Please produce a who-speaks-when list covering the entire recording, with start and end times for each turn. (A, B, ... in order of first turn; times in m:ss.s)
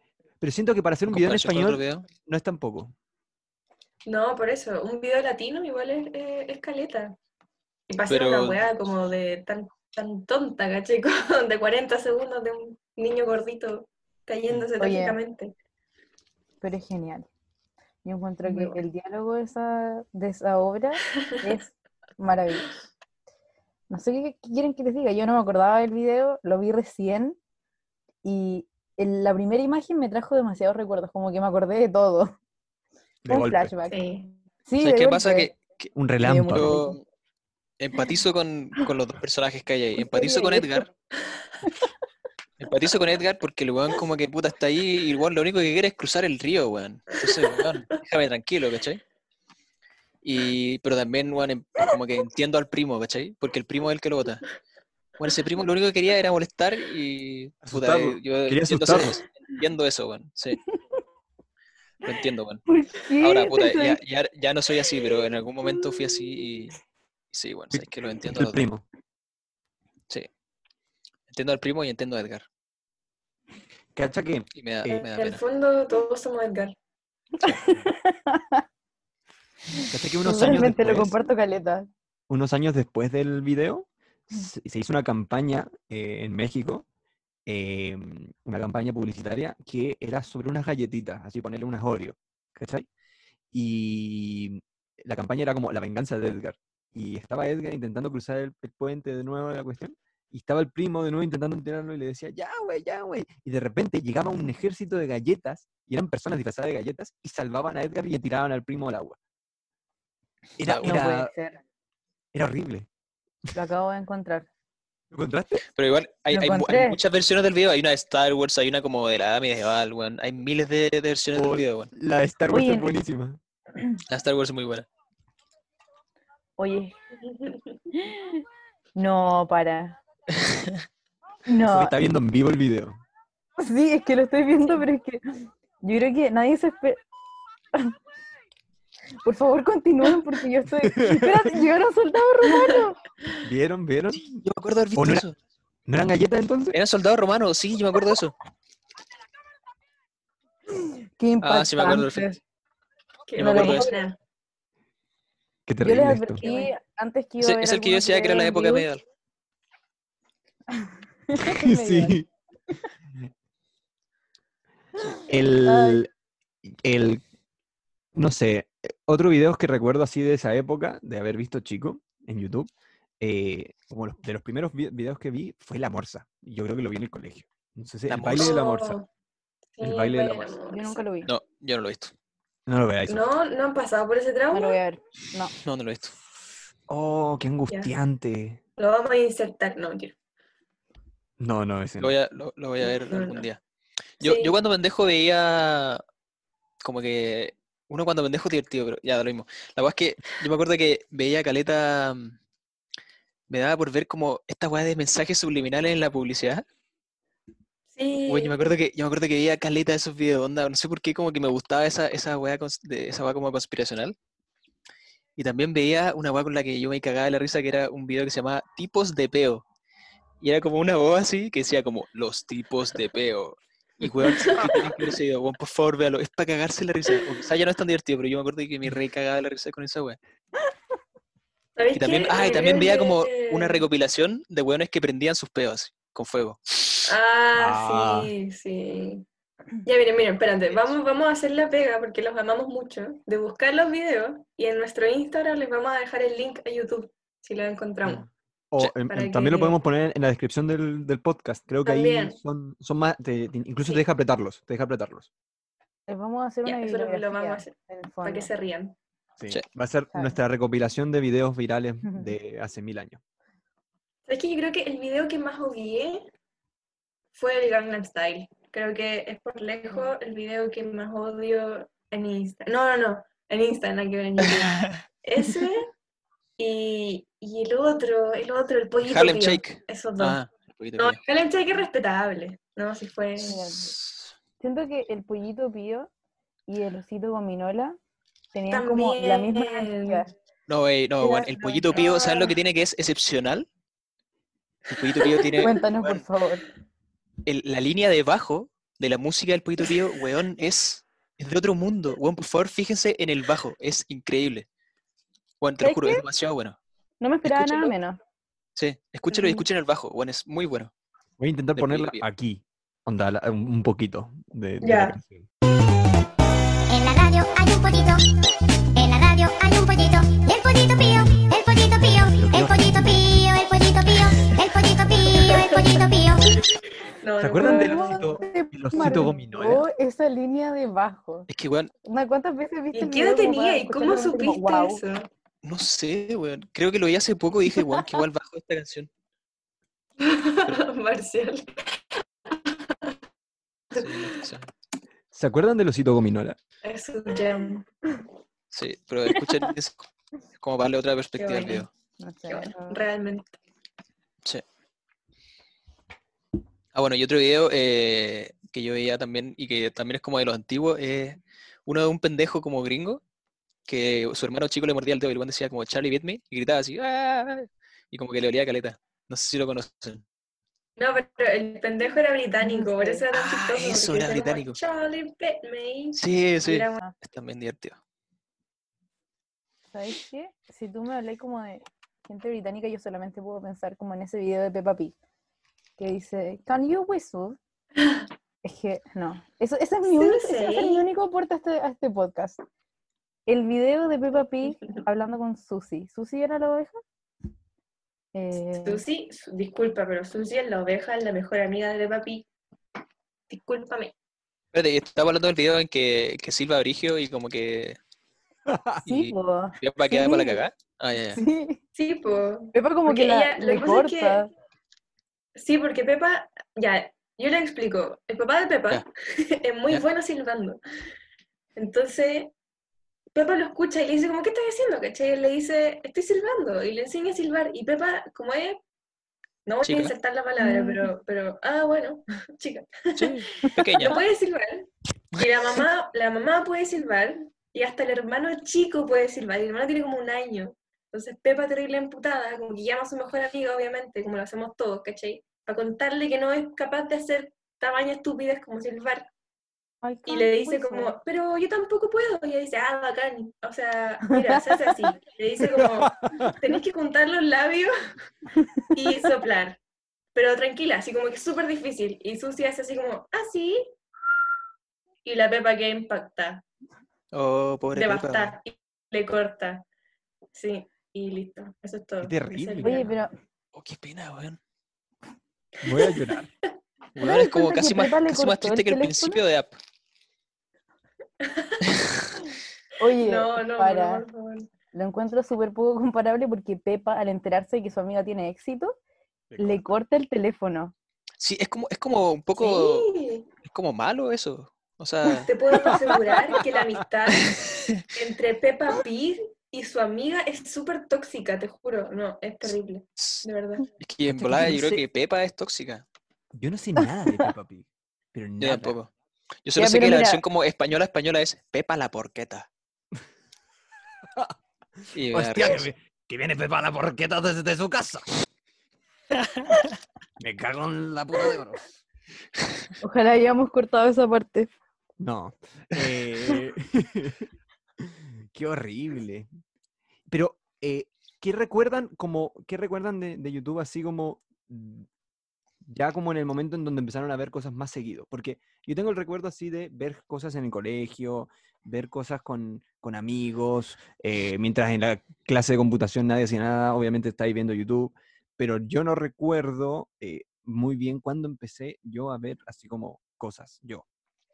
0:00.4-0:02.9 A
0:01.1-0:02.1 B
0:04.1-0:07.2 C
0:07.9-0:15.5 C
0:08.1-0:08.6 B
0:14.8-0:15.2 D
0:16.6-0:17.3 D
0:18.0-0:22.7 D
0:18.4-0:18.8 C
0:23.9-0:27.4 D
0:28.2-0:32.3 D
0:33.2-0:33.7 A
0:33.3-0:34.0 D
0:33.9-0:34.4 C
0:34.7-0:35.5 D
0:34.8-0:35.9 B
0:36.0-0:36.8 A
0:36.2-0:37.0 D
0:36.5-0:37.0 B
0:37.8-0:40.9 B
0:40.0-0:40.9 D
0:42.6-0:49.0 B
0:50.2-0:54.5 B
0:55.2-1:00.6 B
0:57.6-0:59.2 A
1:02.0-1:02.6 B
1:02.7-1:04.0 D
1:03.2-1:06.8 B
1:07.3-1:08.6 B
1:07.7-1:08.8 A
1:11.3-1:12.4 B
1:14.0-1:15.0 A
1:14.6-1:15.4 B
1:14.9-1:16.8 C
1:17.4-1:18.6 D
1:19.8-1:21.9 D
1:19.9-1:21.1 A
1:22.3-1:26.8 A
1:27.5-1:32.9 A
1:33.5-1:49.2 A
1:50.6-1:51.0 B
1:50.6-1:51.3 A
1:50.8-1:51.6 D
1:52.3-1:52.9 A
1:53.5-1:54.5 D
1:55.1-1:55.6 A
1:55.8-2:01.9 B
1:56.3-1:57.0 D
2:01.4-2:03.4 A
2:02.5-2:03.0 D
2:04.1-2:04.9 B
2:06.6-2:06.9 D
2:07.2-2:07.8 C
2:08.0-2:08.4 D
2:09.0-2:10.0 D
2:10.4-2:10.8 B
2:11.5-2:11.9 D
2:11.7-2:13.0 A
2:13.6-2:17.0 D
2:19.2-2:23.0 D
2:20.8-2:21.6 A
2:23.4-2:24.4 A
2:24.2-2:25.4 B
2:25.0-2:25.3 A
2:25.9-2:26.8 A
2:26.7-2:28.4 B
2:30.8-2:32.4 D
2:31.4-2:32.3 B
2:33.3-2:34.2 C
2:33.4-2:33.9 B
2:33.4-2:34.0 D
2:35.7-2:36.4 A
2:35.8-2:38.9 D
2:36.4-2:36.7 C
2:37.4-2:39.0 B
2:40.7-2:42.2 D
2:41.4-2:42.3 A
2:45.3-2:46.1 A
2:45.6-2:46.1 D
2:46.6-2:47.2 A
2:48.2-2:59.0 A
2:58.1-2:58.6 B
2:58.3-2:59.1 C
2:59.8-3:01.0 C
2:59.8-3:00.5 A
3:00.7-3:01.3 D
3:01.3-3:02.1 B
3:02.7-3:03.3 A
3:03.1-3:04.8 C
3:04.5-3:05.5 D
3:05.6-3:06.1 B
3:06.9-3:08.6 A
3:08.8-3:10.2 C
3:11.4-3:12.1 A
3:12.0-3:13.6 B
3:12.8-3:13.5 C
3:14.2-3:16.0 B
3:14.2-3:14.6 C
3:16.8-3:22.4 B
3:23.5-3:26.6 B
3:28.0-3:28.5 C
3:28.3-3:34.2 B
3:35.4-3:39.6 B
3:40.4-3:50.2 B
3:44.2-3:45.0 C
3:51.8-3:53.8 C
3:51.9-3:57.1 B
3:57.1-3:59.2 C
3:57.5-3:58.3 A
3:59.8-4:08.3 C
4:08.7-4:15.3 A
4:09.1-4:09.8 C
4:11.9-4:12.4 C
4:16.1-4:18.5 D
4:16.6-4:19.0 C
4:19.4-4:23.2 A
4:22.0-4:22.4 D
4:24.3-4:26.3 C
4:27.3-4:35.9 C
4:34.4-4:35.0 B
4:36.6-4:40.4 C
4:39.0-4:41.2 B
4:41.0-4:43.7 C
4:43.4-4:43.9 D
4:43.9-4:44.3 B
4:44.6-4:46.1 D
4:46.7-4:48.0 D
4:48.5-4:50.3 D
4:48.7-4:50.2 C
4:50.7-4:53.6 B
4:51.2-4:52.6 C
4:54.9-4:56.2 B
4:55.0-4:55.7 C
4:55.6-4:56.6 D
4:57.4-5:04.7 B
5:05.6-5:06.8 B
5:05.8-5:06.2 D
5:07.2-5:08.2 D
5:07.4-5:07.9 B
5:08.8-5:10.9 B
5:09.3-5:09.6 C
5:11.4-5:15.5 A
5:11.8-5:12.2 B
5:14.8-5:15.2 C
5:16.9-5:18.2 E
5:19.0-5:26.5 E
5:22.4-5:23.2 A
5:25.3-5:26.7 C
5:27.2-5:28.4 C
5:27.4-5:29.8 A
5:27.6-5:31.5 D
5:29.0-5:29.2 C
5:31.5-5:31.9 B
5:32.0-5:35.0 D
5:32.9-5:35.3 C
5:35.6-5:39.1 B
5:40.2-5:43.1 C
5:43.9-5:44.4 C
5:43.9-5:44.7 B
5:45.3-5:46.6 A
5:46.8-5:47.9 C
5:48.7-5:50.0 B
5:50.6-5:51.9 B
5:51.4-5:51.9 C
5:52.2-5:53.0 D
5:52.5-5:53.6 C
5:56.9-6:03.2 B
6:03.9-6:10.2 B
6:11.0-6:17.0 C
6:12.6-6:13.2 D
6:13.3-6:14.8 B
6:16.2-6:18.0 B
6:19.9-6:25.2 D
6:26.0-6:27.6 D
6:28.0-6:28.2 C
6:28.6-6:32.6 D
6:30.1-6:31.0 C
6:33.5-6:37.0 D
6:38.3-6:39.0 D
6:38.8-6:42.5 C
6:43.5-6:44.1 C
6:44.7-6:48.0 B
6:48.7-6:49.0 A
6:49.0-6:50.6 D
6:49.1-6:51.4 B
6:51.3-6:51.8 D
6:52.0-6:54.5 C
6:52.7-6:54.5 D
6:55.6-7:00.8 C
7:01.8-7:02.5 C
7:03.3-7:08.8 C
7:09.7-7:29.3 C
7:09.8-7:10.1 B
7:10.6-7:11.1 D
7:13.2-7:14.2 B
7:30.0-7:31.2 D
7:30.3-7:37.9 C
7:35.6-7:36.6 A
7:38.6-7:38.8 D
7:38.9-7:39.8 C
7:40.4-7:43.9 C
7:45.2-7:46.6 C
7:47.3-7:48.5 B
7:47.9-7:49.8 C
7:50.5-7:53.2 C
7:52.2-7:53.1 A
7:52.8-7:53.3 D
7:53.7-7:54.6 B
7:55.8-7:56.5 A
7:57.2-7:59.8 B
7:57.2-7:59.4 D
8:01.4-8:01.8 C
8:01.9-8:02.2 B
8:03.0-8:04.2 D
8:03.2-8:04.7 C
8:04.9-8:09.0 D
8:09.5-8:09.8 A
8:09.6-8:10.9 D
8:11.4-8:13.1 B
8:12.6-8:13.5 C
8:13.6-8:15.5 B
8:15.3-8:23.9 C
8:17.5-8:18.0 B
8:22.6-8:23.5 B
8:24.0-8:26.0 B
8:24.3-8:25.0 A
8:26.6-8:29.0 A
8:28.6-8:29.1 B
8:29.7-8:32.7 B
8:29.8-8:30.4 D
8:34.2-8:38.3 A
8:35.1-8:35.8 B
8:39.4-8:39.7 B
8:40.4-8:42.0 A
8:43.0-8:44.7 D
8:45.2-8:47.5 A
8:48.0-8:49.5 A
8:50.3-8:55.1 A
8:55.8-9:14.0 A